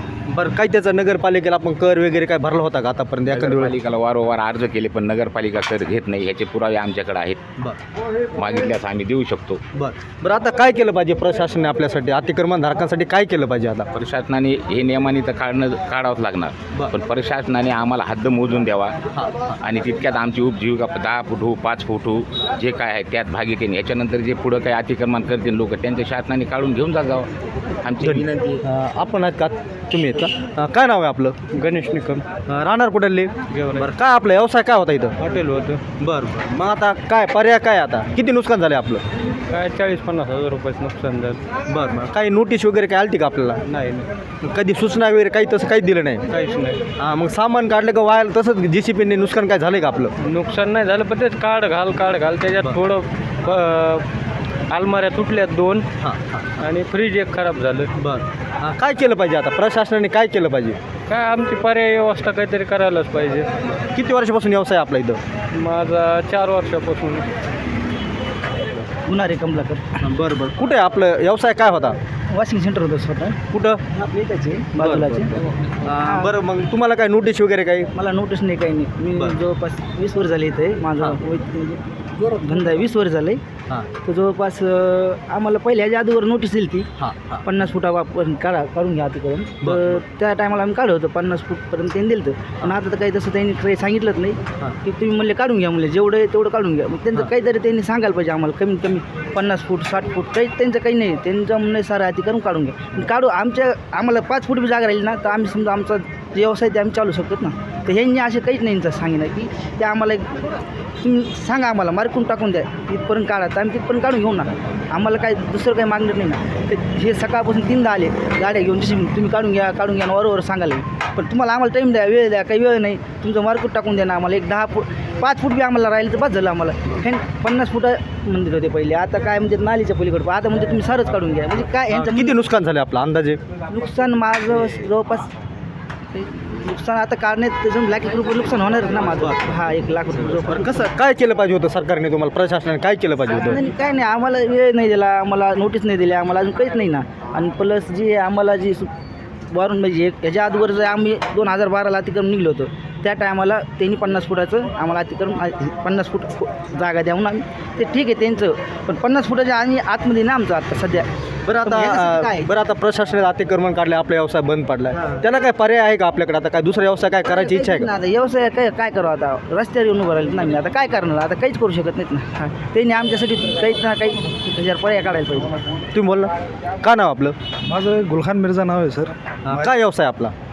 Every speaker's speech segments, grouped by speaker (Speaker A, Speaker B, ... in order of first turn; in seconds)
Speaker A: 0.3-3.8, 9.7-13.9, 19.1-19.5, 28.0-31.4, 32.4-35.2, 36.0-39.0, 41.7-46.3, 47.0-50.1, 52.5-52.8, 56.0-56.5, 58.0-60.8, 63.9-65.2, 70.0-72.0, 73.5-73.8, 74.8-75.3, 75.8-77.9, 87.0-87.5, 131.9-133.4, 140.5-143.6, 161.5-167.9, 175.9-176.3, 176.8-177.4, 179.5-180.3
Speaker B: 3.3-7.4, 8.4-9.6, 13.9-18.9, 19.6-27.3, 27.8-28.6
Speaker C: 31.5-32.3, 33.5-33.9, 35.2-35.8, 39.5-41.5, 46.3-46.9, 50.2-54.1, 54.7-55.9, 56.6-57.9, 61.1-63.6, 65.5-67.3
Speaker D: 69.1-69.9, 72.3-73.4, 73.9-75.3, 75.8-76.3, 78.0-83.4, 84.0-86.9, 87.5-110.4, 111.0-132.4, 133.7-135.3, 136.1-140.9, 143.3-148.9, 149.5-162.5, 167.2-175.6
Speaker E: 177.7-179.8